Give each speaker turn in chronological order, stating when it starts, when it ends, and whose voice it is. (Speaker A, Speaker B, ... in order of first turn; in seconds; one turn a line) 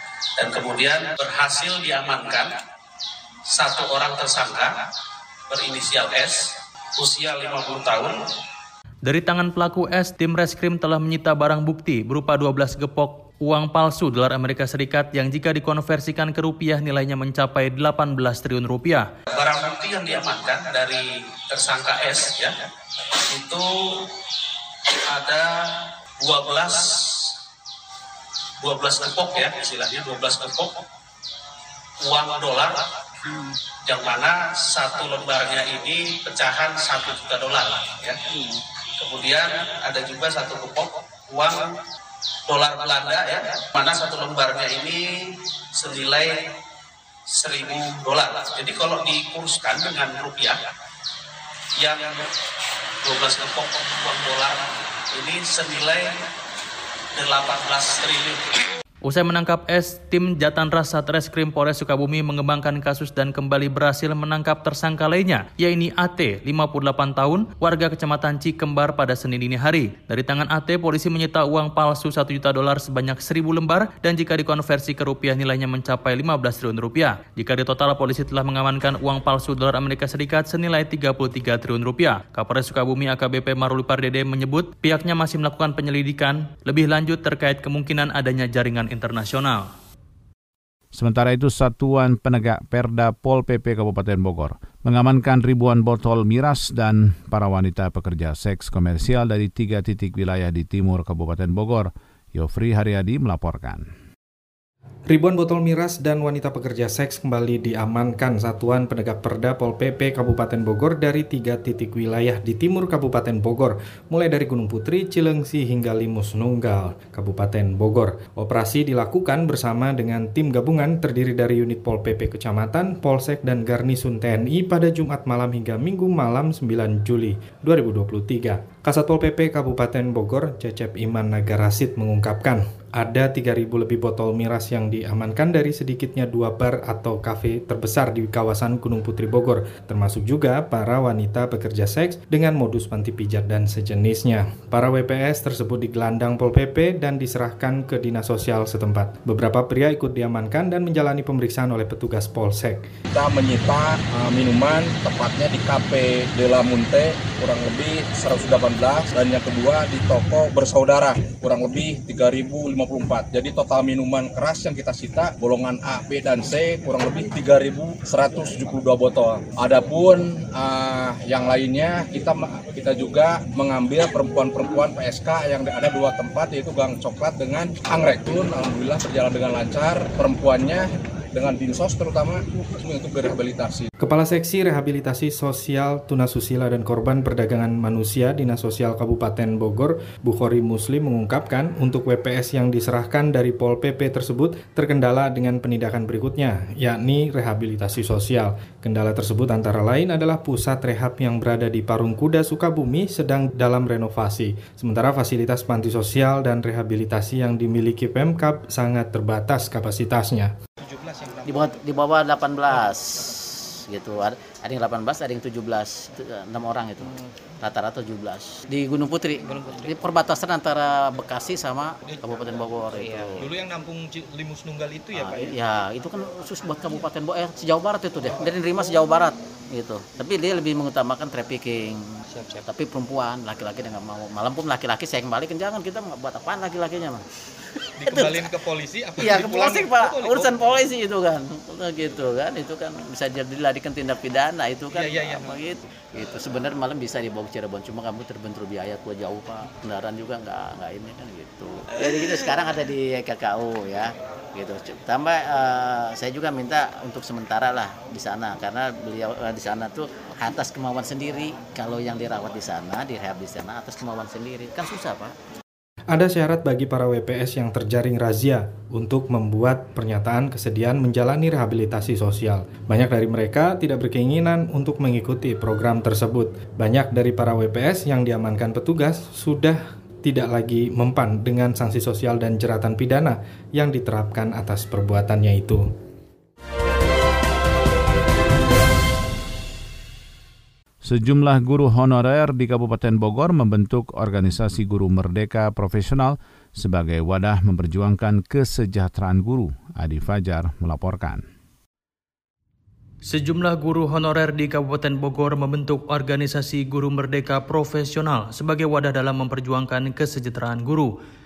Speaker A: 0.4-2.5
Speaker A: 3.5-4.7
Speaker A: 5.5-8.2
Speaker B: 9.1-19.1
Speaker A: 19.3-22.5
Speaker A: 23.3-24.0
Speaker A: 25.0-27.3
Speaker A: 28.6-30.7
Speaker A: 32.0-32.8
Speaker A: 33.9-38.2
Speaker A: 39.0-41.7
Speaker A: 42.5-46.4
Speaker A: 47.3-50.6
Speaker A: 51.8-52.3
Speaker A: 53.0-56.1
Speaker A: 57.1-58.4
Speaker B: 59.0-89.7
Speaker C: 90.9-103.9
Speaker D: 105.1-152.9
Speaker E: 153.1-183.9
Speaker D: 184.0-210.5
Speaker F: 210.8-211.8
Speaker G: 211.4-213.3
Speaker G: 213.9-223.5
Speaker F: 219.5-219.8
Speaker F: 222.1-222.4
Speaker F: 223.4-225.5
Speaker G: 225.1-232.0
Speaker G: 232.5-237.2
Speaker F: 238.0-240.8
Speaker G: 238.0-238.5
Speaker G: 239.2-265.3
Speaker F: 244.9-245.6
Speaker D: 266.1-285.8
Speaker C: 291.0-301.4
Speaker B: 303.2-311.1